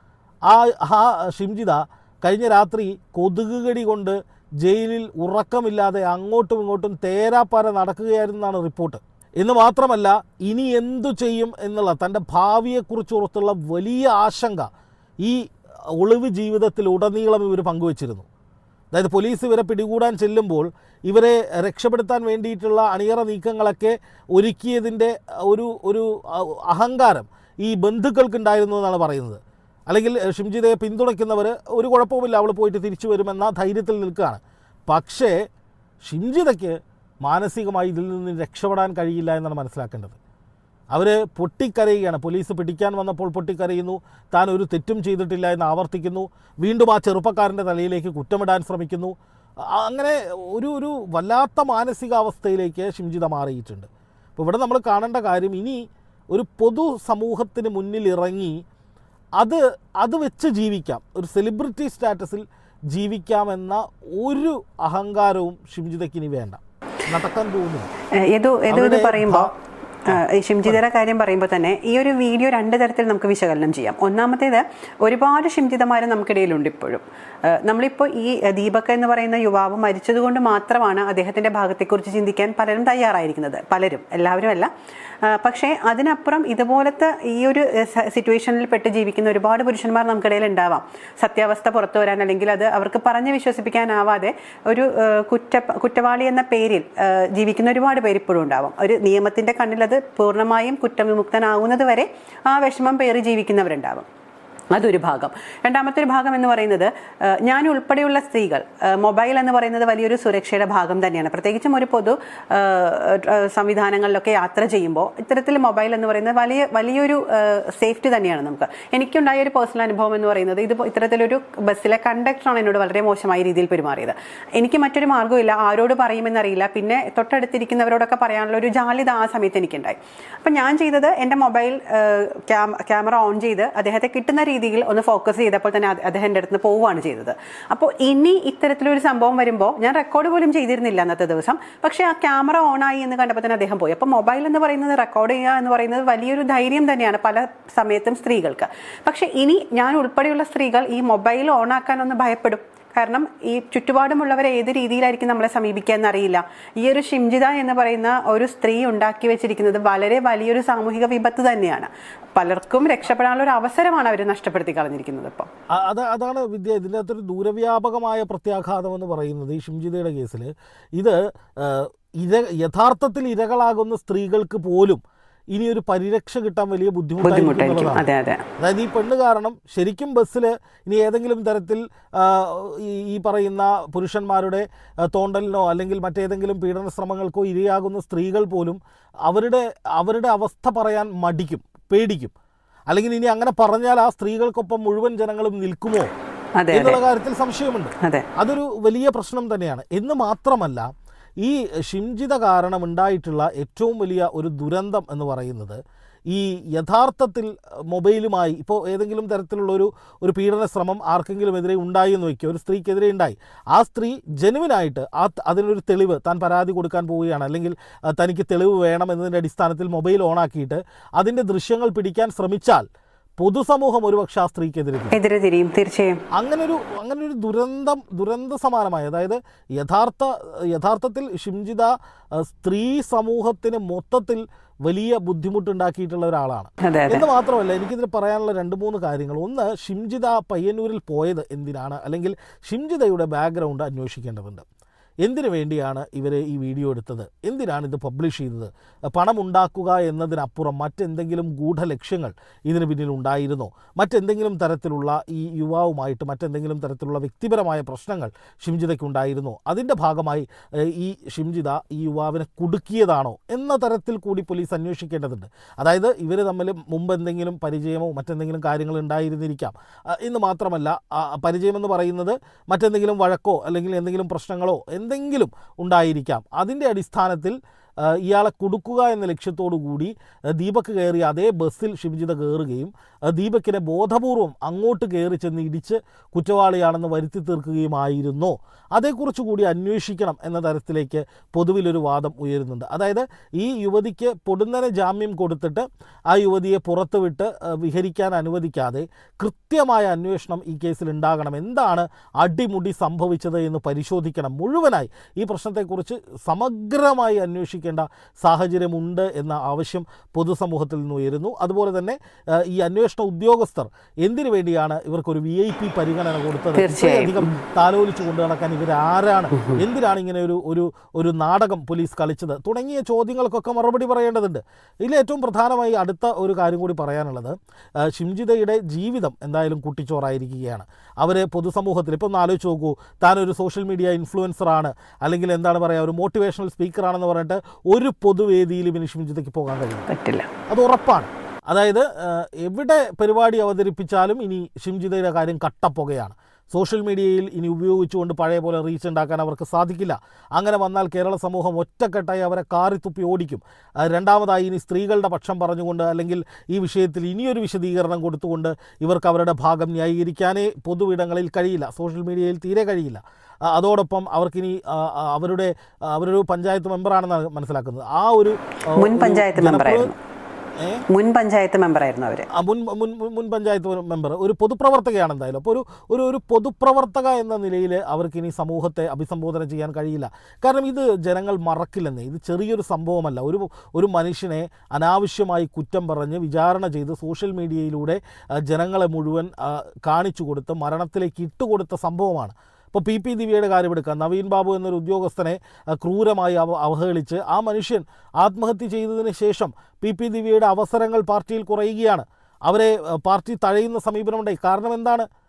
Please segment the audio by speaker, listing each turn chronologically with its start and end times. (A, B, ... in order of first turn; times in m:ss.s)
0:00.5-0:14.7 A
0:16.0-0:18.3 A
0:18.9-0:35.4 A
0:36.0-0:40.2 A
0:40.9-0:49.1 A
0:49.7-0:58.6 A
0:59.4-1:07.9 A
1:08.2-1:09.5 B
1:08.7-1:09.5 A
1:10.1-1:24.7 B
1:10.1-1:10.8 A
1:25.2-1:44.1 B
1:44.7-2:45.5 B
2:45.7-2:55.0 A
2:55.5-2:58.0 A
2:57.2-2:58.4 B
2:58.6-3:12.3 A
3:12.9-3:16.1 A
3:16.6-3:17.0 B
3:16.7-3:20.9 A
3:18.0-3:18.3 B
3:21.4-3:42.8 A
3:43.4-3:45.2 A
3:45.1-3:46.2 B
3:46.3-4:04.6 A
3:56.8-3:57.2 B
4:05.2-5:40.1 A
5:16.7-5:17.6 B
5:40.1-5:40.5 B
5:40.7-6:10.1 A
6:09.0-6:10.1 B
6:10.8-6:11.0 A
6:11.1-6:12.5 B
6:12.5-6:45.3 A